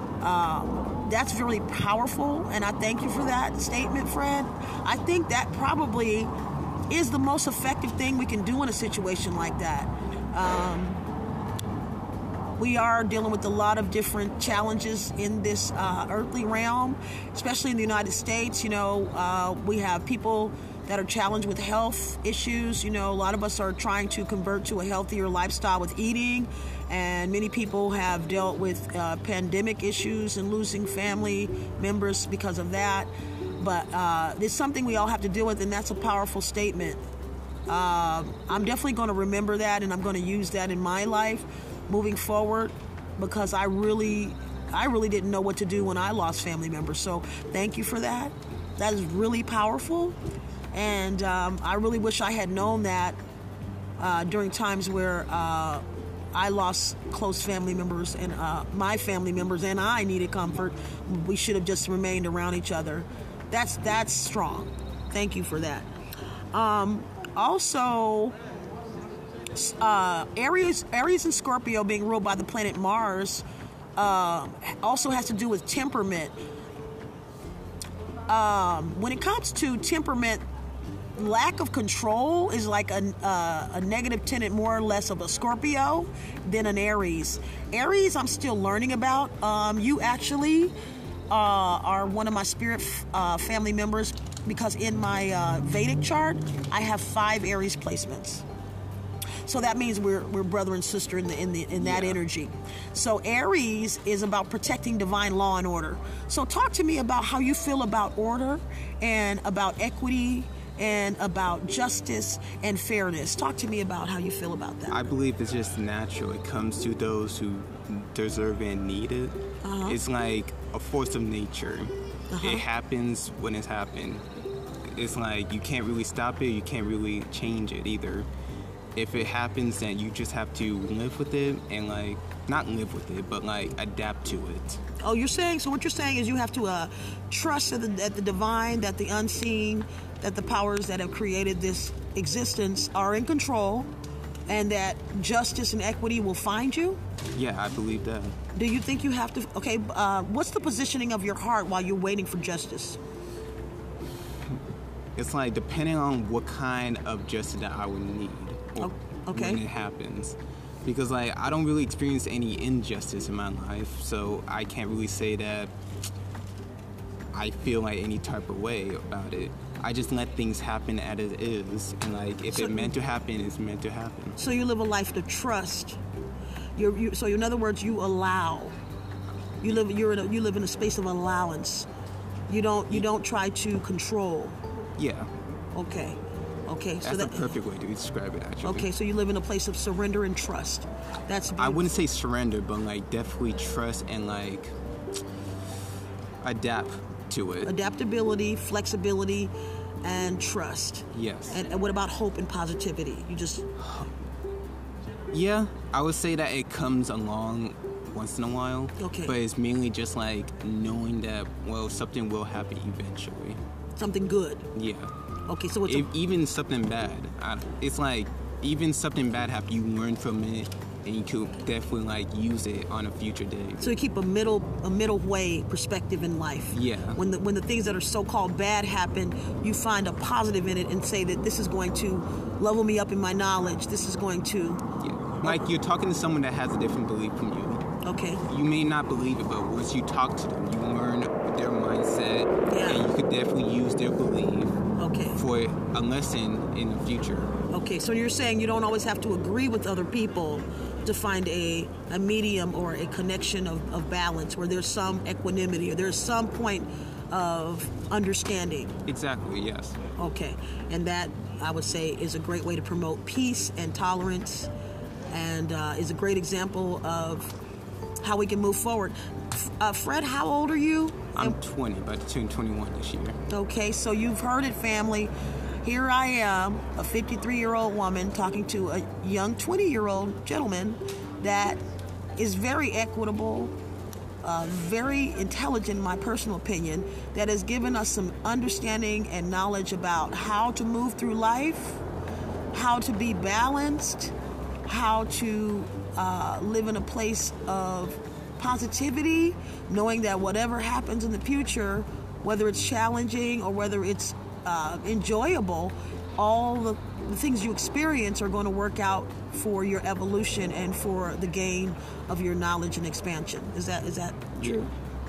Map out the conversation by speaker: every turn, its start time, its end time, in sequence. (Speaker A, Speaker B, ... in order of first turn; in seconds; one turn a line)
Speaker A: 0.2-6.3
Speaker A: 6.9-11.0
Speaker A: 12.6-37.0
Speaker A: 37.7-50.2
Speaker A: 50.7-53.2
Speaker A: 54.0-65.9
Speaker A: 66.5-68.3
Speaker A: 69.5-73.4
Speaker A: 74.0-76.3
Speaker A: 78.3-80.4
Speaker A: 81.2-90.7
Speaker A: 91.3-98.4
Speaker A: 99.4-115.1
Speaker B: 101.8-102.2
Speaker B: 114.9-124.2
Speaker A: 119.6-120.0
Speaker A: 122.3-122.6
Speaker B: 124.8-128.3
Speaker B: 128.9-134.8
Speaker A: 135.0-143.9
Speaker A: 144.5-147.0
Speaker B: 147.3-148.4
Speaker A: 148.6-153.0
Speaker B: 155.2-165.7
Speaker A: 158.8-159.6
Speaker B: 167.3-174.4
Speaker A: 172.5-172.9
Speaker A: 174.4-176.0
Speaker A: 176.8-178.7
Speaker A: 179.6-181.9
Speaker A: 182.5-184.6
Speaker B: 185.0-185.3
Speaker A: 185.7-187.5
Speaker B: 187.0-188.9
Speaker A: 188.6-191.9
Speaker B: 191.6-194.7
Speaker B: 196.4-197.7
Speaker A: 197.6-199.5
Speaker A: 200.0-203.7
Speaker B: 201.1-201.6
Speaker B: 203.8-204.1
Speaker B: 205.3-213.6
Speaker A: 209.0-209.4
Speaker A: 214.0-214.7
Speaker B: 214.7-215.1
Speaker A: 215.5-216.1
Speaker B: 215.8-223.9
Speaker A: 223.8-234.8
Speaker B: 226.7-227.2
Speaker B: 235.0-237.8
Speaker A: 238.0-238.4
Speaker B: 238.4-244.8
Speaker A: 242.7-243.1
Speaker A: 245.0-245.4
Speaker B: 245.3-247.6
Speaker A: 247.7-259.0
Speaker B: 259.1-260.0
Speaker A: 260.2-264.7
Speaker A: 265.3-267.5
Speaker A: 268.2-271.6
Speaker B: 271.3-273.4
Speaker A: 273.5-275.3
Speaker A: 275.8-281.8
Speaker A: 282.4-283.7
Speaker A: 284.4-292.0
Speaker A: 292.7-294.3
Speaker A: 294.9-314.9